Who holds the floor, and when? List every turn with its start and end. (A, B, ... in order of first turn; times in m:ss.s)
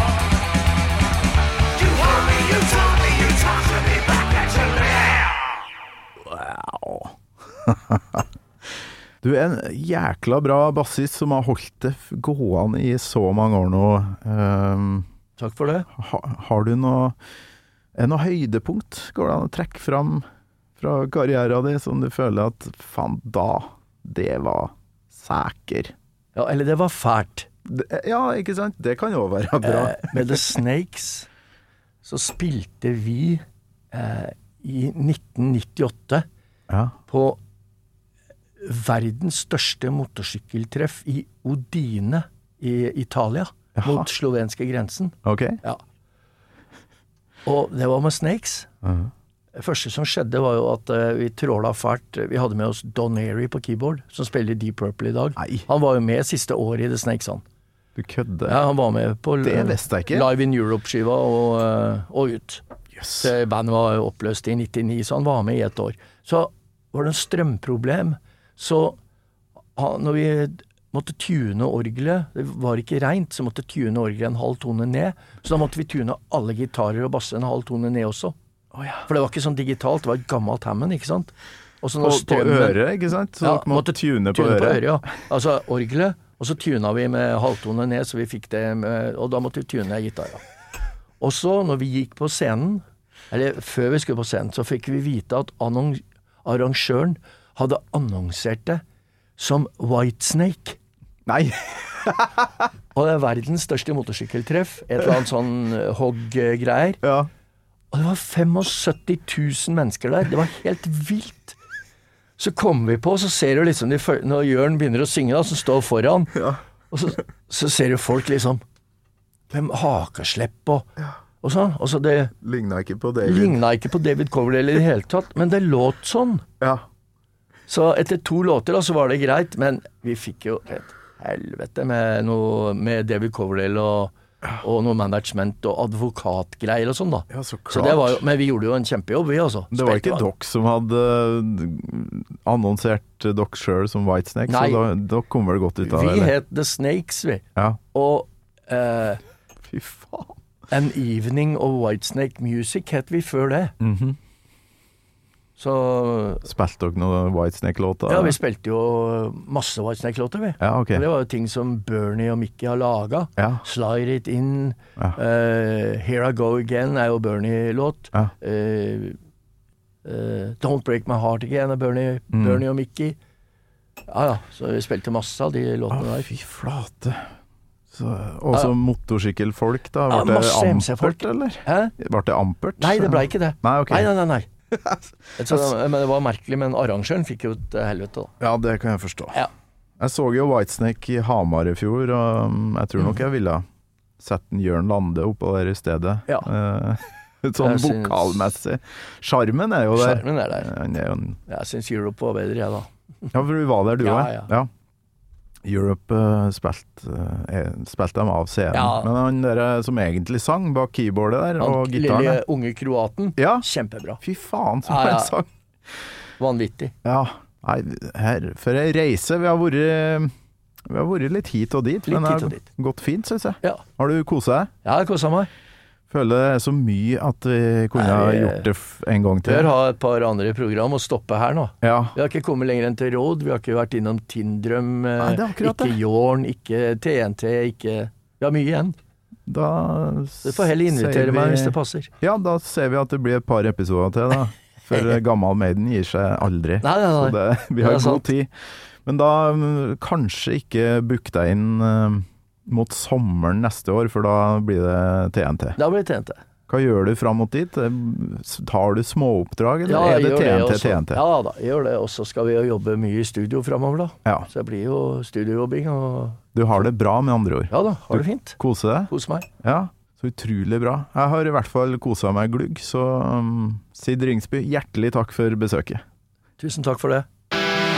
0:01.7-0:05.4 A
0:06.2-0:08.2 B
0:09.2-0:15.1 B
0:15.4-0:15.9 C
0:16.0-0:17.2 B
0:18.0-0:20.2 B
0:20.8-0:25.9 B
0:26.4-0:27.5 C
0:27.6-0:30.4 B
0:29.6-0:31.3 C
0:32.0-0:36.3 C
0:36.7-0:37.0 B
0:37.1-0:37.4 C
0:38.6-0:45.8 C
0:43.8-0:44.1 B
0:45.2-0:45.6 B
0:47.4-0:48.7 C
0:48.8-0:49.1 B
0:49.5-0:57.4 C
0:55.4-0:55.7 B
0:58.0-0:58.6 B
0:58.5-1:02.6 C
0:59.4-1:00.3 B
1:03.0-1:03.3 B
1:03.2-1:09.0 C
1:09.8-1:18.4 C
1:18.7-1:19.0 B
1:19.1-1:22.8 C
1:22.0-1:25.1 B
1:23.4-1:30.4 C
1:31.2-1:38.8 C
1:39.4-1:40.8 C
1:41.3-1:42.7 B
1:42.9-1:47.0 C
1:47.0-1:47.3 B
1:47.9-1:51.6 C
1:52.4-1:58.6 C
1:56.4-1:56.6 B
1:59.5-2:00.9 C
2:01.4-2:02.3 C
2:02.4-2:03.6 B
2:03.2-2:06.4 C
2:07.7-2:20.3 C
2:17.3-2:18.2 B
2:19.7-2:26.4 B
2:24.5-2:24.8 C
2:25.8-2:29.2 C
2:29.6-2:30.4 B
2:30.7-2:33.7 C
2:33.8-2:34.2 B
2:35.6-2:36.5 C
2:36.4-2:38.4 B
2:38.1-2:49.2 C
2:40.6-2:41.0 B
2:43.4-2:43.6 B
2:50.0-2:53.2 C
2:52.3-2:52.6 B
2:54.1-2:56.3 C
2:55.9-2:57.3 B
2:57.9-3:04.1 B
3:00.1-3:02.0 C
3:02.8-3:04.5 C
3:04.7-3:05.7 B
3:05.4-3:08.3 C
3:08.4-3:09.4 B
3:10.0-3:13.6 B
3:14.2-3:21.4 B
3:17.6-3:18.5 C
3:19.9-3:20.7 C
3:21.5-3:22.9 C
3:23.3-3:24.7 B
3:24.0-3:24.5 C
3:25.6-3:32.4 B
3:28.7-3:29.1 C
3:31.6-3:34.2 C
3:33.4-3:33.6 B
3:34.2-3:35.5 B
3:34.8-3:35.4 C
3:36.4-3:36.9 C
3:37.0-3:40.3 B
3:40.9-3:44.7 B
3:42.1-3:42.6 C
3:44.8-3:45.5 C
3:46.1-3:49.7 B
3:47.9-3:48.7 C
3:49.4-3:59.0 C
3:51.8-3:52.2 B
3:55.2-3:56.0 B
3:59.5-4:08.5 B
4:00.4-4:02.1 C
4:06.8-4:08.2 C
4:09.0-4:15.8 B
4:15.8-4:16.4 C
4:16.7-4:21.2 B
4:19.8-4:26.4 C
4:26.5-4:29.1 B
4:27.7-4:29.5 C
4:29.6-4:36.0 B
4:36.6-4:37.3 C